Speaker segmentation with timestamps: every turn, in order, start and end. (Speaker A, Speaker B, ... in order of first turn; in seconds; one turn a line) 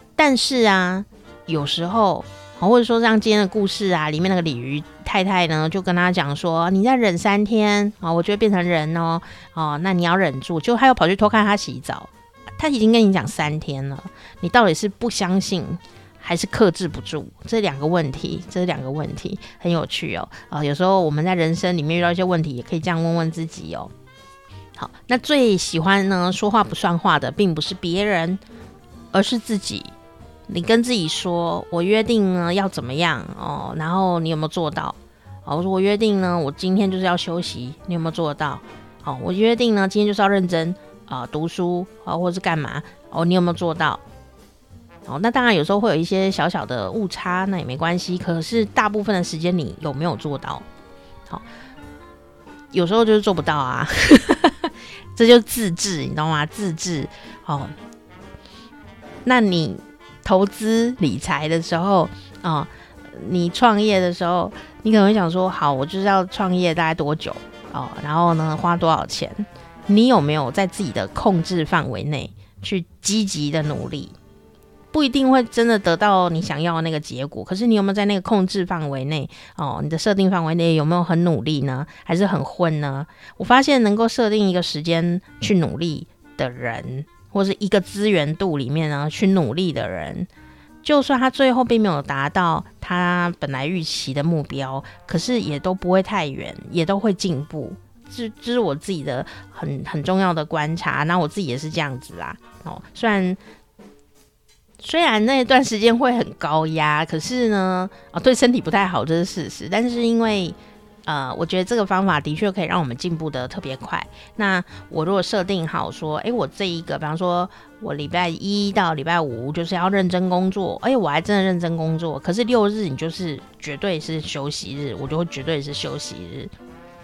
Speaker A: 0.2-23.9
Speaker A: 24.8-28.4
Speaker A: 29.1-29.9
Speaker A: 30.5-44.0
Speaker A: 45.1-50.6
Speaker A: 52.7-57.7
Speaker A: 59.2-74.2
Speaker A: 74.9-90.3
Speaker A: 90.8-103.4
Speaker A: 104.8-126.5